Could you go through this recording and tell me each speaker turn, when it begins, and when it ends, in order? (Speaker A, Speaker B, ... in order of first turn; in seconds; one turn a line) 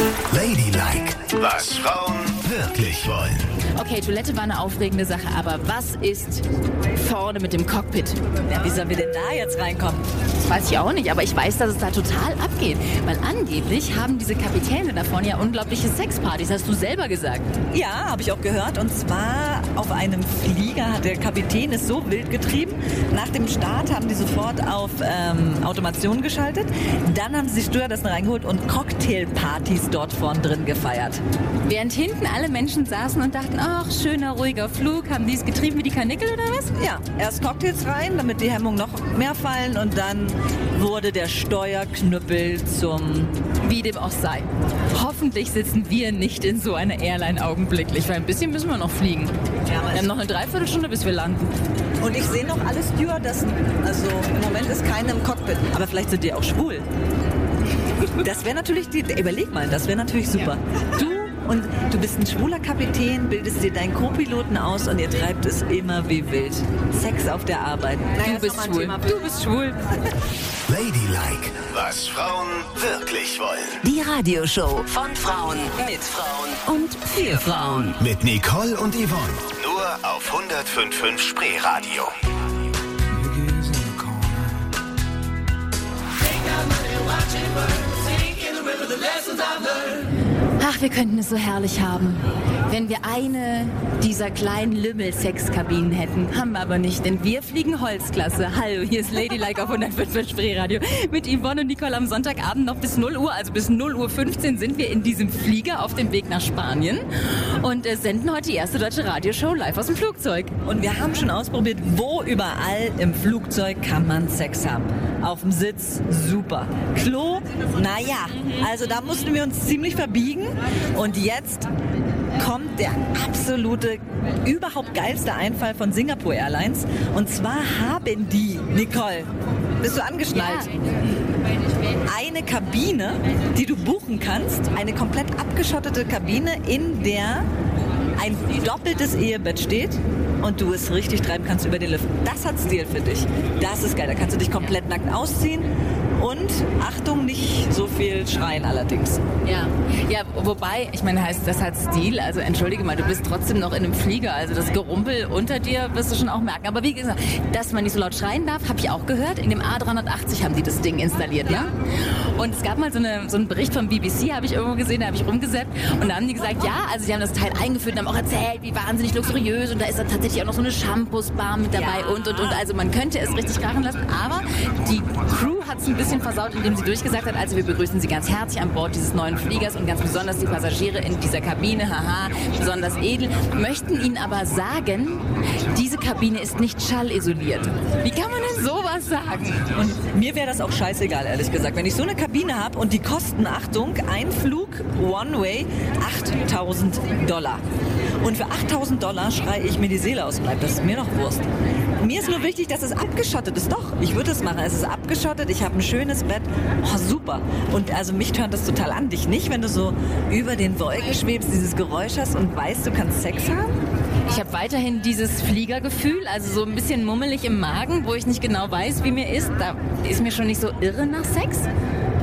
Speaker A: 0.3-3.5
Speaker B: 3.8-8.2
Speaker C: 8.5-10.1
Speaker B: 10.4-17.5
Speaker C: 17.7-31.2
Speaker B: 31.7-36.7
Speaker C: 36.8-43.3
Speaker B: 43.6-49.4
Speaker C: 49.7-50.1
Speaker B: 49.9-51.5
Speaker C: 52.0-56.9
Speaker C: 58.2-69.4
Speaker B: 68.2-69.9
Speaker A: 70.7-73.8
Speaker D: 73.8-78.0
Speaker A: 78.0-82.2
Speaker E: 83.1-84.6
Speaker E: 87.0-90.0
Speaker B: 90.6-110.5
Speaker C: 110.6-121.7
Speaker B: 118.4-119.3
Speaker C: 122.3-130.7
Speaker B: 130.3-130.7
Speaker C: 132.1-137.5
Speaker C: 138.2-149.2
Speaker B: 149.4-189.8
Speaker C: 171.8-172.6
Speaker C: 189.8-197.6
Speaker C: 198.2-201.5
Speaker C: 202.0-213.8
Speaker B: 214.3-221.7